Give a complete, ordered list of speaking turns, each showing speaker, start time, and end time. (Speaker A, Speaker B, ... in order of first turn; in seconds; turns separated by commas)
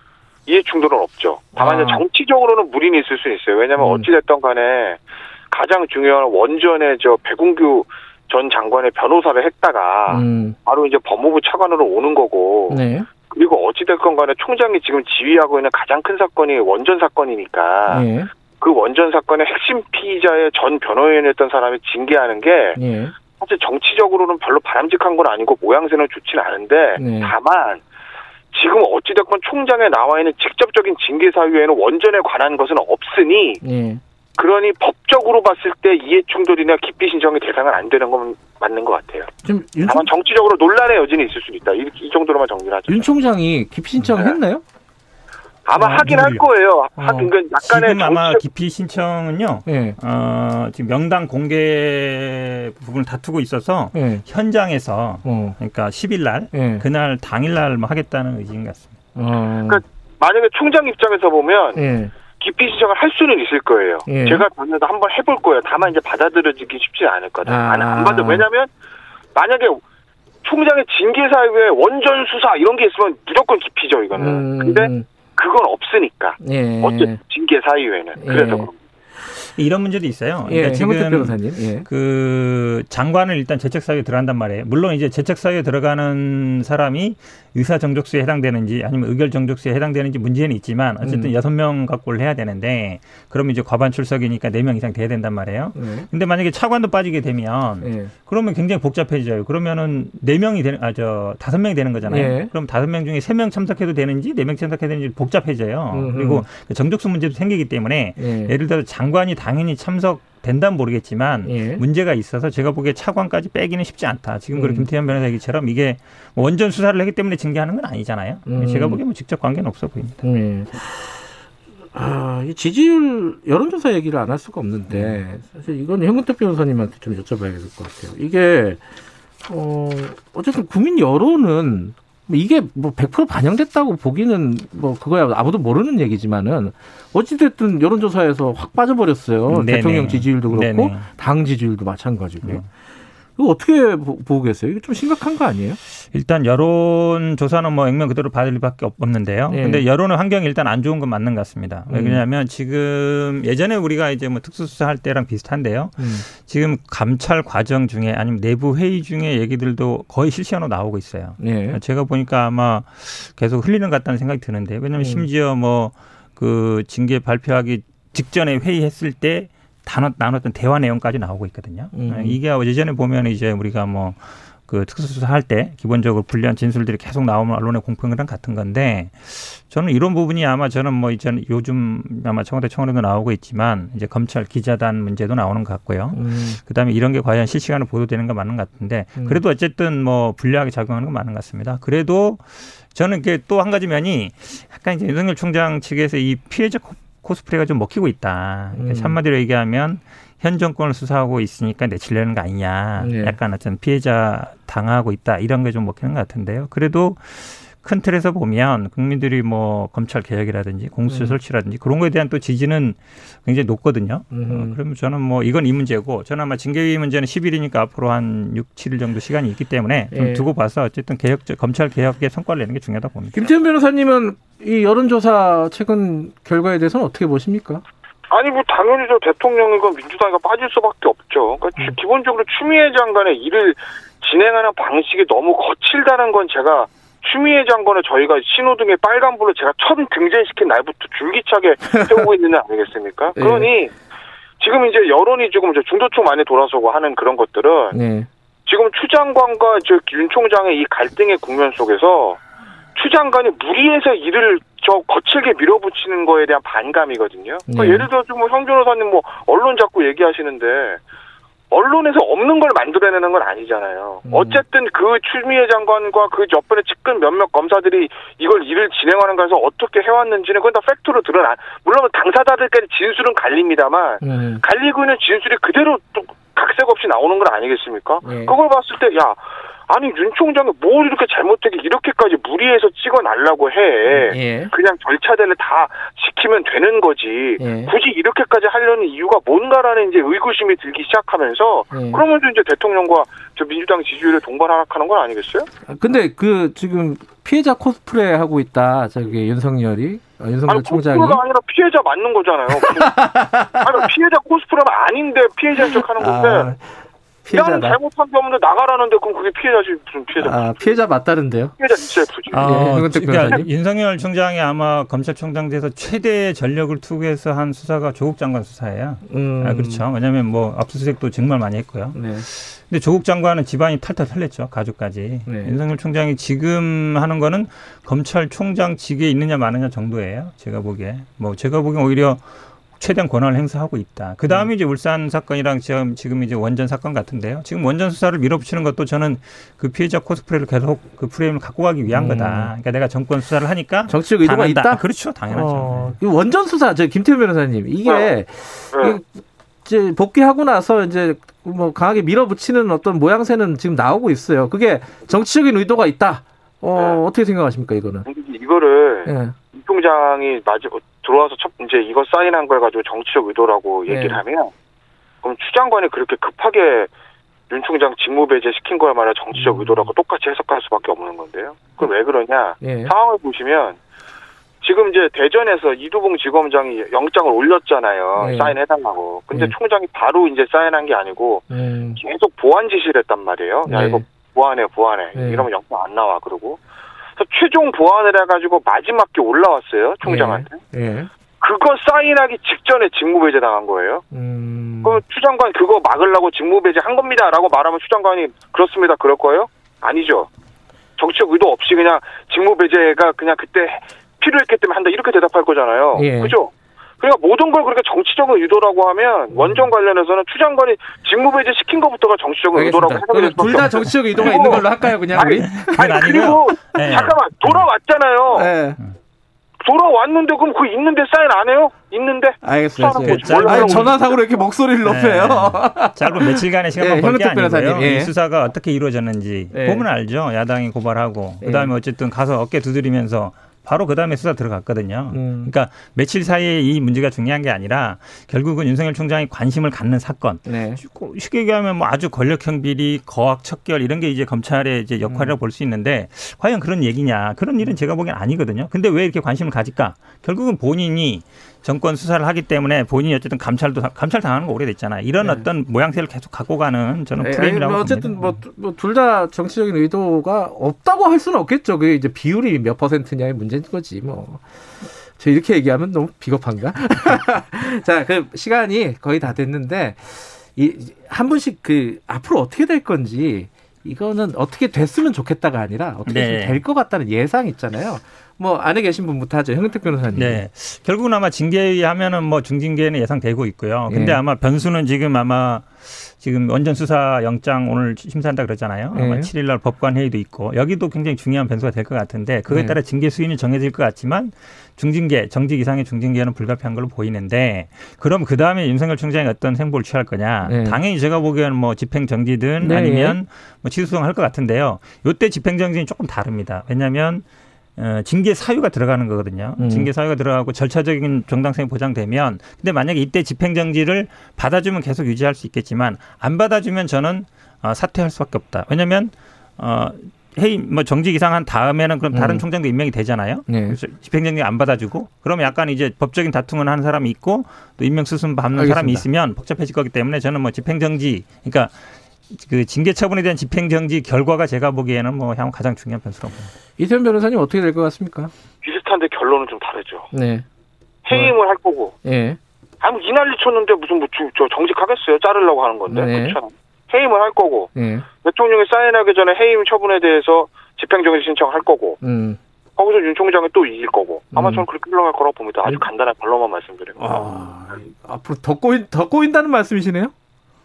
Speaker A: 0.5-18.1, Speaker B: 1.6-2.0, Speaker B: 3.8-4.1, Speaker B: 10.1-10.6, Speaker B: 12.7-13.1, Speaker B: 17.9-18.3, Speaker A: 18.6-22.8, Speaker B: 22.8-23.1, Speaker A: 23.4-27.8, Speaker B: 27.0-27.3, Speaker A: 28.5-33.6, Speaker B: 33.6-34.0, Speaker A: 34.4-39.3, Speaker B: 39.4-40.1, Speaker A: 39.8-43.1, Speaker B: 42.9-44.6, Speaker A: 44.1-44.4, Speaker A: 45.6-48.4, Speaker C: 45.8-46.5, Speaker B: 47.0-47.3, Speaker C: 47.6-59.0, Speaker B: 49.7-50.0, Speaker B: 53.9-54.2, Speaker B: 55.2-55.6, Speaker B: 56.5-56.9, Speaker B: 59.1-59.8, Speaker A: 59.6-61.8, Speaker B: 61.8-62.1, Speaker A: 62.4-68.7, Speaker B: 64.1-64.5, Speaker B: 67.5-68.5, Speaker A: 69.3-69.8, Speaker A: 70.4-78.8, Speaker B: 74.2-75.0, Speaker B: 76.4-77.2, Speaker B: 78.2-78.7, Speaker C: 79.4-120.2, Speaker B: 80.5-81.9, Speaker B: 91.0-91.3, Speaker B: 95.8-96.1, Speaker B: 97.8-98.1, Speaker B: 102.1-102.5, Speaker B: 105.9-106.5, Speaker B: 108.2-108.5, Speaker B: 111.5-111.8, Speaker B: 114.5-114.9, Speaker B: 118.5-119.0, Speaker B: 120.2-121.0, Speaker B: 122.0-128.8, Speaker C: 124.9-125.2, Speaker B: 129.5-142.7, Speaker C: 139.5-141.1, Speaker B: 143.4-145.8, Speaker C: 146.0-223.5, Speaker B: 149.5-149.9, Speaker B: 151.9-152.2, Speaker B: 156.0-156.3, Speaker B: 161.4-161.8, Speaker B: 165.0-165.3, Speaker B: 171.9-172.4, Speaker B: 186.1-186.6, Speaker B: 189.2-189.4, Speaker B: 198.8-199.2, Speaker B: 203.0-203.4, Speaker B: 211.1-211.4, Speaker B: 214.3-214.8, Speaker B: 220.1-220.5, Speaker B: 223.3-227.8, Speaker A: 228.3-243.9, Speaker B: 243.4-243.7, Speaker A: 244.6-248.0, Speaker B: 247.9-248.3, Speaker A: 248.7-252.4, Speaker A: 252.9-261.0, Speaker B: 257.7-258.1, Speaker A: 261.7-295.7, Speaker B: 264.2-264.6, Speaker B: 274.2-274.6, Speaker B: 278.2-278.6, Speaker B: 284.1-284.7, Speaker B: 287.6-287.9, Speaker B: 291.9-292.2, Speaker B: 295.9-301.4, Speaker A: 300.7-303.1, Speaker B: 302.7-304.1, Speaker A: 303.8-306.7, Speaker B: 305.8-308.0, Speaker A: 307.5-311.0, Speaker B: 310.4-311.8, Speaker A: 311.8-312.8, Speaker B: 312.5-313.7, Speaker C: 312.5-346.2, Speaker B: 319.3-320.1, Speaker B: 322.1-322.4, Speaker B: 325.5-325.7, Speaker B: 342.1-342.7, Speaker B: 344.1-349.3, Speaker A: 348.1-348.3, Speaker A: 348.9-349.2, Speaker B: 349.9-358.3, Speaker A: 357.0-357.2, Speaker A: 358.3-364.7, Speaker B: 359.2-359.6, Speaker B: 364.1-364.4, Speaker A: 365.4-367.1, Speaker A: 367.7-374.0, Speaker B: 369.5-370.1, Speaker B: 372.8-373.1, Speaker A: 374.8-381.6, Speaker B: 378.4-378.8, Speaker B: 381.7-382.2, Speaker A: 382.2-386.8, Speaker B: 383.9-384.2, Speaker B: 385.3-385.7, Speaker A: 387.4-390.8, Speaker B: 390.2-391.3, Speaker A: 391.6-394.2, Speaker B: 394.3-395.2, Speaker A: 395.0-400.5, Speaker A: 401.2-418.7, Speaker B: 406.1-406.6, Speaker B: 409.5-409.9, Speaker B: 412.7-416.3, Speaker C: 415.3-417.8, Speaker B: 418.5-419.0, Speaker A: 419.8-424.6, Speaker B: 422.6-428.3, Speaker C: 423.2-424.2, Speaker C: 425.0-458.4, Speaker B: 429.7-430.1, Speaker B: 431.6-431.9, Speaker B: 435.3-435.7, Speaker B: 440.7-441.0, Speaker B: 445.3-445.6, Speaker B: 455.4-455.7, Speaker B: 457.4-464.6, Speaker B: 465.2-480.6, Speaker C: 476.3-476.8, Speaker C: 480.3-507.5, Speaker B: 484.1-484.4, Speaker B: 489.1-489.5, Speaker B: 492.7-493.0, Speaker B: 500.7-501.0, Speaker B: 502.8-503.4, Speaker C: 508.0-532.0, Speaker B: 509.8-510.1, Speaker B: 522.3-522.7, Speaker B: 523.7-524.0, Speaker B: 528.8-529.2, Speaker C: 532.5-536.7, Speaker B: 537.0-538.5, Speaker A: 538.8-540.3, Speaker B: 540.3-540.6, Speaker A: 541.2-542.1, Speaker B: 541.3-541.5, Speaker B: 542.2-542.6, Speaker A: 543.0-547.9, Speaker B: 546.1-546.6, Speaker B: 548.0-548.3, Speaker A: 548.4-552.2, Speaker B: 552.2-552.6, Speaker A: 553.0-557.2, Speaker B: 554.5-554.9, Speaker B: 557.2-560.3